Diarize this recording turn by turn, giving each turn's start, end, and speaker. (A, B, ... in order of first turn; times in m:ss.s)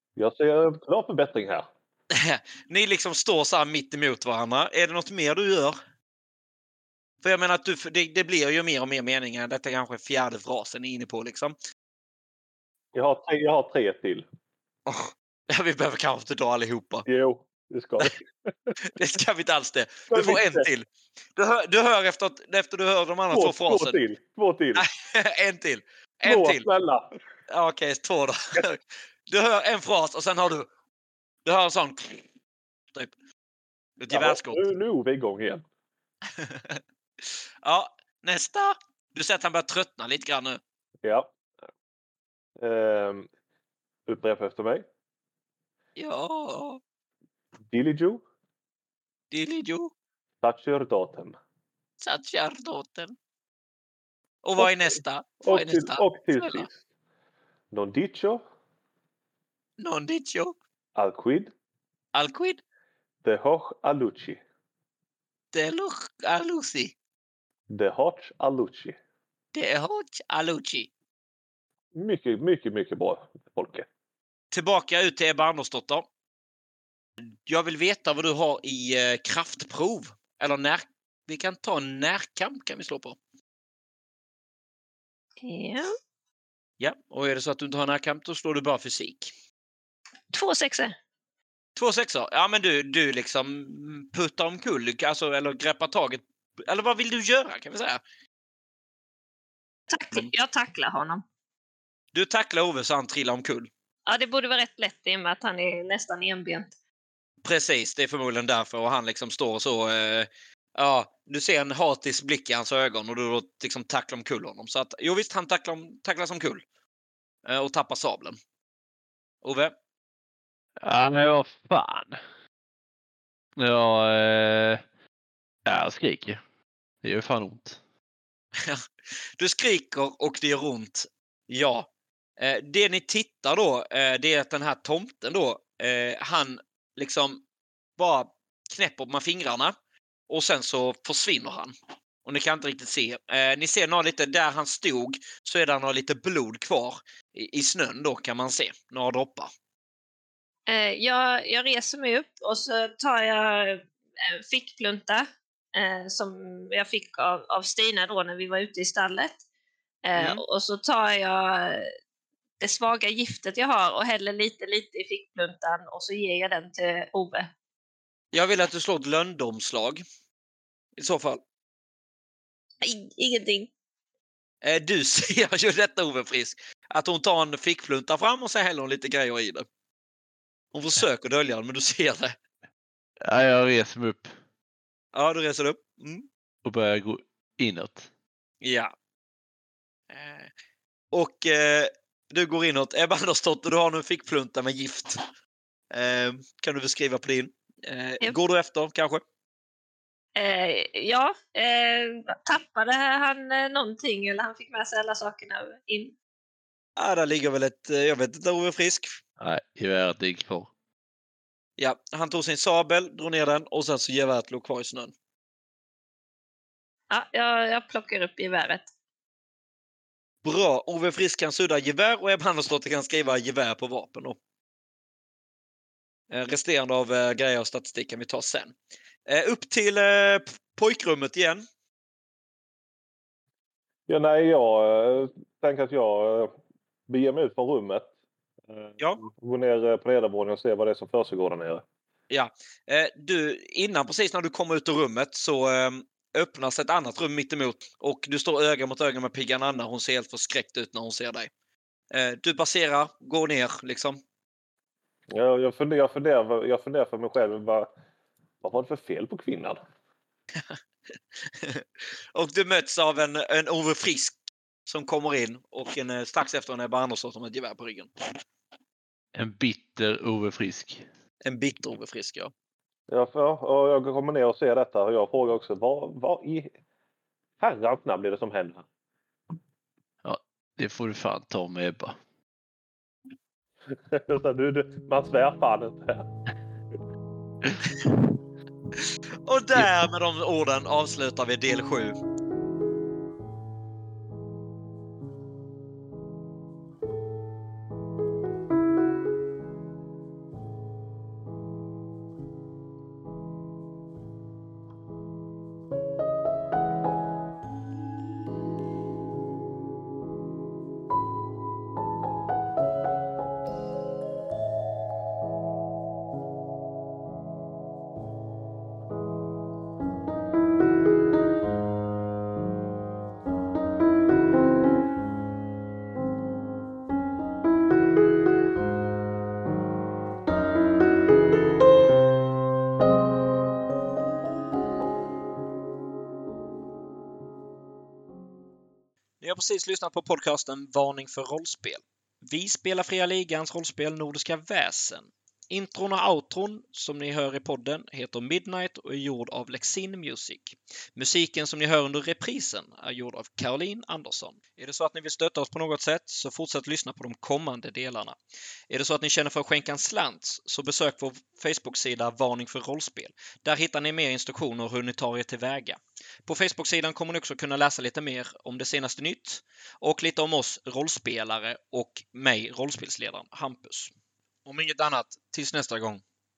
0:00.2-0:01.7 A
0:02.1-0:05.8 B
0:07.2-0:11.6 B
0:12.9-0:14.2 A
0:14.9-0:17.0 B
0:17.0-0:18.8 A
0:18.9-0:20.8 B
0:20.1-0:20.7 A
0:21.4-0:24.0 B
0:23.3-0:24.9 A
0:24.8-0:26.6 B
0:26.2-0:27.1 A
0:27.5-0:30.7 B
0:31.4-0:32.2 B
0:34.0-0:34.6 B
0:34.1-0:35.6 A
0:36.4-0:40.6 B
0:41.0-0:41.3 A
0:42.6-0:43.3 A
0:44.1-0:44.8 A
0:46.0-0:46.8 B
0:47.7-0:48.2 A
0:49.3-0:49.9 B
0:50.4-0:51.3 A
0:52.0-0:53.1 B
0:54.4-0:56.7 B
0:54.6-0:56.7 A
0:57.7-0:58.4 A
0:59.8-1:00.6 B
1:01.0-1:01.5 A
1:02.1-1:02.6 B
1:03.2-1:04.4 A
1:05.5-1:06.9 B
1:07.7-1:09.0 A
1:09.5-1:10.9 B
1:12.0-1:13.8 A
1:14.5-1:16.0 B
1:17.4-1:23.2 B
1:25.4-1:25.9 C
1:26.8-1:29.3 B
1:30.3-1:31.0 C
1:31.8-1:38.0 B
1:39.9-1:41.2 C
1:42.1-1:43.7 B
1:44.0-1:46.7 C
1:47.4-1:56.6 B
1:57.4-1:58.4 B
1:59.4-1:59.7 B
2:00.8-2:02.2 D
2:03.6-2:04.8 D
2:05.6-2:06.4 D
2:07.0-2:07.8 D
2:09.4-2:17.4 B
2:18.0-2:19.7 B
2:20.3-2:21.7 B
2:22.2-2:29.5 B
2:30.7-2:39.4 C
2:40.0-2:41.9 C
2:40.2-2:40.4 B
2:42.6-2:47.5 C
2:48.3-2:50.0 B
2:51.0-2:51.4 B
2:52.8-2:53.7 C
2:54.6-2:59.7 B
3:00.7-3:02.4 B
3:03.2-3:04.3 D
3:05.1-3:06.2 B
3:06.6-3:08.1 D
3:08.6-3:08.9 B
3:10.1-3:10.5 B
3:11.1-3:15.2 B
3:15.9-3:19.2 B
3:20.4-3:26.1 C
3:27.0-3:29.2 B
3:29.4-3:30.7 D
3:31.8-3:35.1 B
3:37.1-3:38.9 C
3:40.4-3:44.4 B
3:46.3-3:48.7 B
3:49.3-3:51.6 B
3:54.1-3:56.5 A
3:57.1-3:58.1 A
3:58.7-4:01.8 A
4:02.3-4:11.5 B
4:12.1-4:14.2 B
4:15.3-4:17.9 A
4:18.6-4:19.8 A
4:21.4-4:24.4 B
4:24.9-4:28.1 B
4:29.3-4:31.0 D
4:31.4-4:32.5 B
4:33.1-4:36.7 A
4:37.6-4:38.8 A
4:40.2-4:42.2 D
4:43.9-4:46.3 A
4:49.4-4:52.2 B
5:39.4-5:58.4 B
5:58.9-6:14.1 B
6:14.6-6:16.2 B